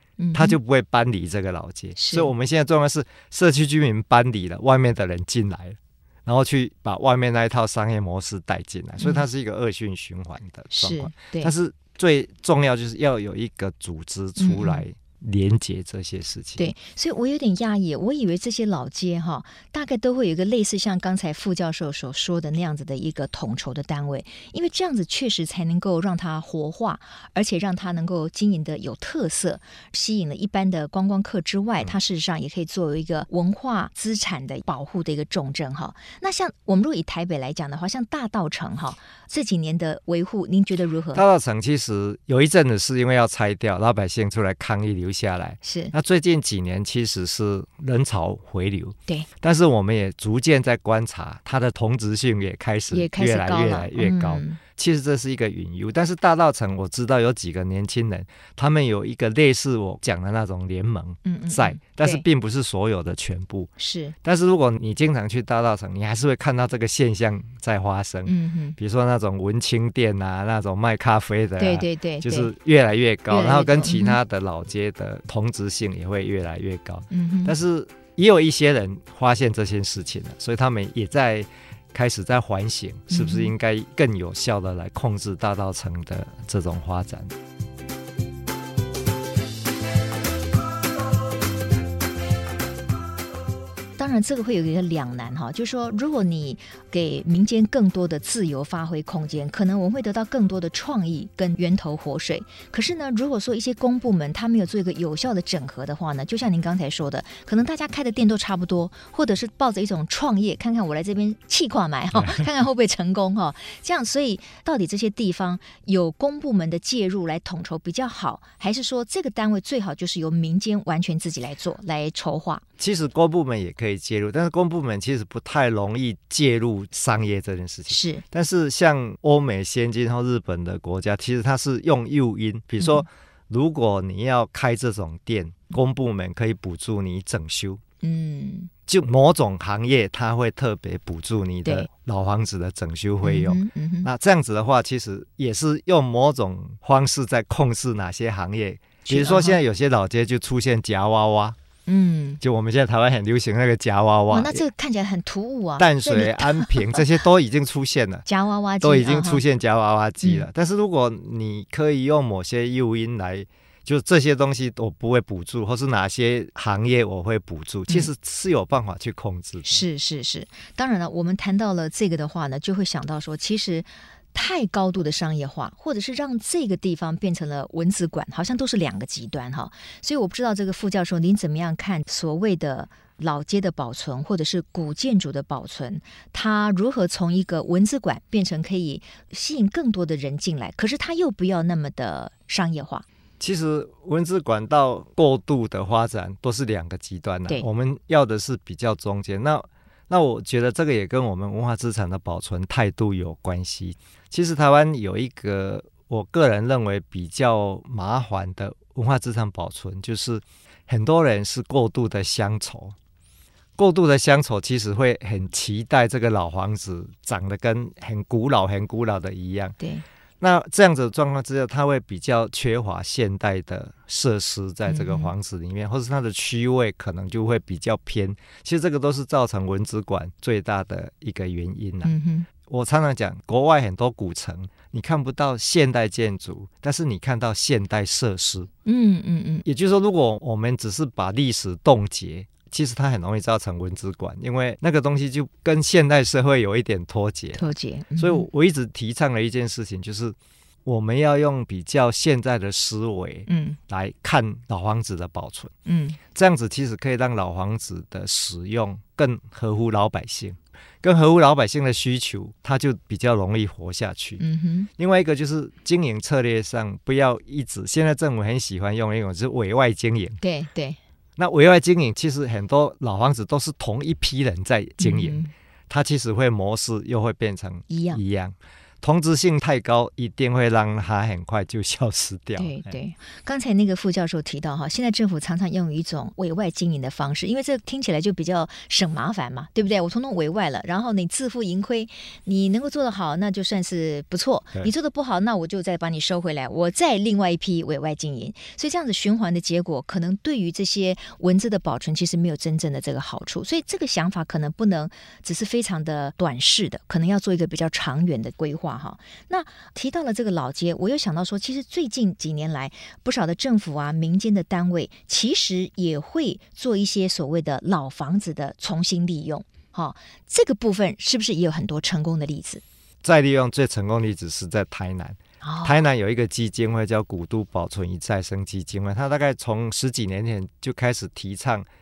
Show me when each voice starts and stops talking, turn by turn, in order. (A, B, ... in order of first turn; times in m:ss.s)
0:00.2-0:00.6 A
0:00.3-0:16.7 B
0:02.0-0:02.3 A
0:09.0-0:09.2 A
0:10.7-0:11.5 A
0:14.4-0:14.8 A
0:16.6-0:41.2 A
0:41.1-1:03.7 B
0:45.6-0:45.9 A
0:52.9-0:54.6 A
1:01.2-1:02.2 A
1:03.8-1:04.1 A
1:04.2-1:27.3 B
1:08.2-1:08.8 A
1:11.6-1:12.5 A
1:13.3-1:14.2 A
1:17.1-1:17.5 A
1:23.1-1:23.5 A
1:34.0-2:02.6 A
2:02.8-2:17.8 B
2:07.9-2:08.2 A
2:18.0-2:18.7 A
2:18.9-2:31.6 B
2:23.2-2:24.1 A
2:29.0-2:29.6 A
2:31.8-2:32.4 A
2:32.4-2:34.6 B
2:34.3-2:37.1 A
2:35.8-2:38.2 B
2:38.2-2:39.4 A
2:38.8-2:49.8 B
2:49.6-3:13.0 A
3:13.4-3:33.0 B
3:33.8-3:39.8 B
3:40.4-3:58.7 B
3:44.9-3:45.3 A
3:52.0-3:52.5 A
3:58.8-3:59.6 A
3:59.6-4:15.7 B
4:07.5-4:08.5 A
4:13.5-4:13.8 A
4:15.8-4:16.2 A
4:16.3-4:24.4 B
4:24.4-4:24.9 A
4:25.0-4:30.4 B
4:30.4-4:31.0 A
4:31.4-4:42.9 B
4:35.0-4:35.5 A
4:37.9-4:38.2 A
4:42.6-5:22.8 A
5:23.2-5:31.9 B
5:25.6-5:26.0 A